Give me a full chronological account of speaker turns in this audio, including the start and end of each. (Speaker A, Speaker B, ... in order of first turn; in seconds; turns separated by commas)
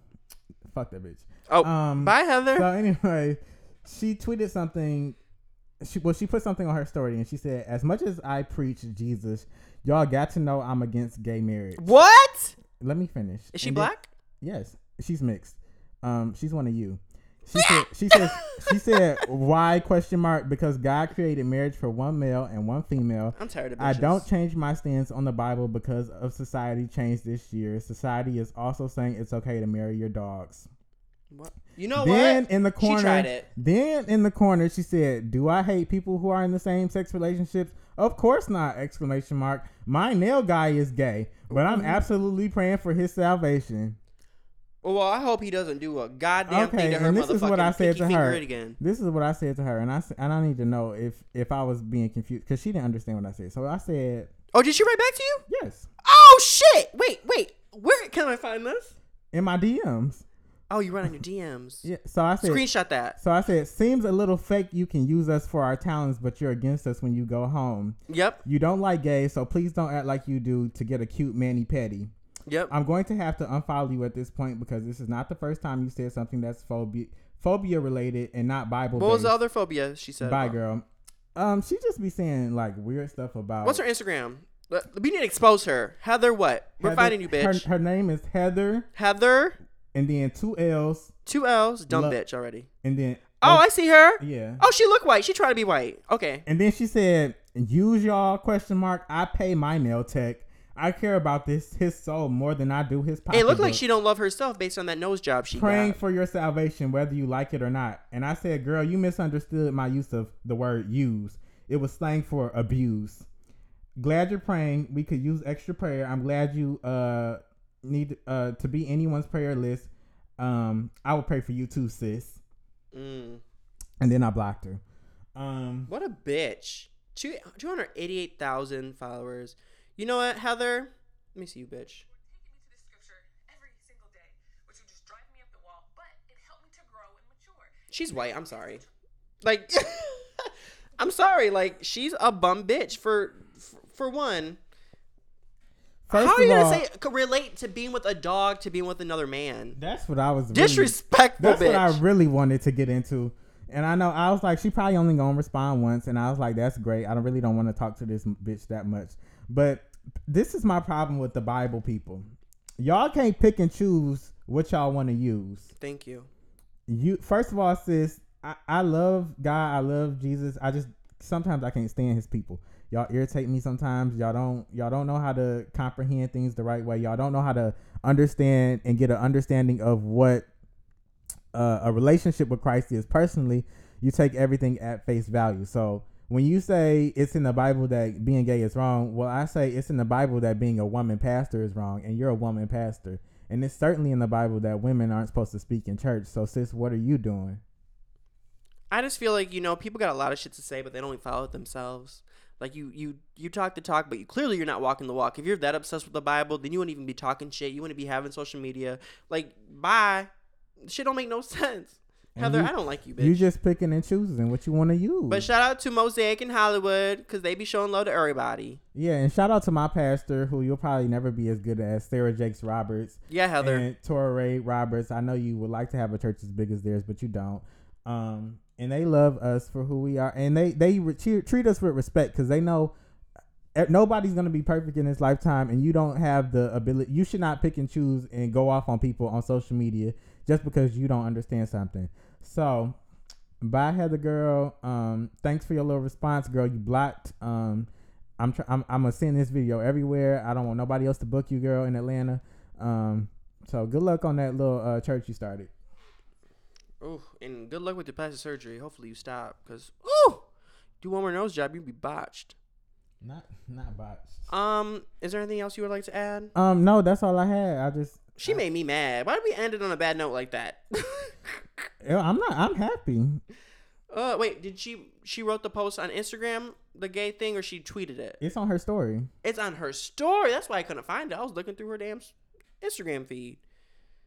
Speaker A: 0.7-5.2, Speaker B: 1.5-2.7, Speaker A: 5.8-11.8, Speaker B: 11.8-12.6, Speaker A: 12.8-30.7, Speaker B: 13.5-14.1, Speaker B: 17.5-19.2, Speaker B: 23.3-24.3, Speaker B: 31.3-33.5, Speaker A: 32.0-44.0, Speaker B: 41.5-42.0, Speaker B: 44.8-48.8, Speaker A: 46.5-54.3, Speaker B: 54.5-55.4, Speaker A: 55.5-55.9, Speaker B: 56.0-59.0, Speaker A: 59.3-60.2, Speaker B: 60.7-61.9, Speaker A: 61.8-62.6, Speaker B: 62.4-63.2, Speaker A: 63.2-72.1, Speaker B: 68.1-68.4, Speaker B: 72.5-72.7, Speaker A: 72.7-79.4, Speaker B: 78.9-80.6, Speaker A: 80.2-83.8, Speaker B: 83.6-87.7, Speaker A: 86.8-88.9, Speaker B: 89.0-89.6, Speaker A: 89.9-91.1, Speaker B: 91.3-92.7, Speaker A: 91.9-92.2, Speaker A: 92.8-93.6, Speaker B: 93.4-96.4, Speaker A: 94.2-94.6, Speaker A: 96.5-103.8, Speaker B: 103.3-106.0, Speaker A: 105.5-113.3, Speaker A: 114.0-122.4, Speaker B: 122.9-123.4, Speaker A: 124.0-124.8, Speaker A: 125.4-125.9, Speaker B: 125.9-132.1, Speaker C: 132.1-138.9, Speaker B: 137.9-138.8, Speaker B: 139.4-144.6, Speaker A: 146.1-146.8, Speaker B: 146.1-149.8, Speaker A: 149.8-162.3, Speaker B: 150.5-152.0, Speaker A: 162.8-165.7, Speaker B: 165.8-166.3, Speaker A: 166.9-180.5, Speaker A: 181.5-197.6, Speaker B: 198.9-210.3, Speaker B: 210.8-213.5, Speaker A: 212.4-215.5, Speaker B: 215.3-218.8, Speaker A: 218.9-232.9, Speaker B: 223.3-223.9, Speaker A: 233.7-243.0, Speaker A: 243.6-255.7, Speaker B: 257.0-260.4, Speaker B: 261.0-262.6, Speaker A: 263.2-264.5, Speaker B: 264.5-266.5, Speaker A: 266.6-268.6, Speaker B: 268.4-271.9, Speaker A: 272.0-273.4, Speaker B: 274.1-278.4, Speaker A: 278.4-279.3, Speaker B: 279.4-283.6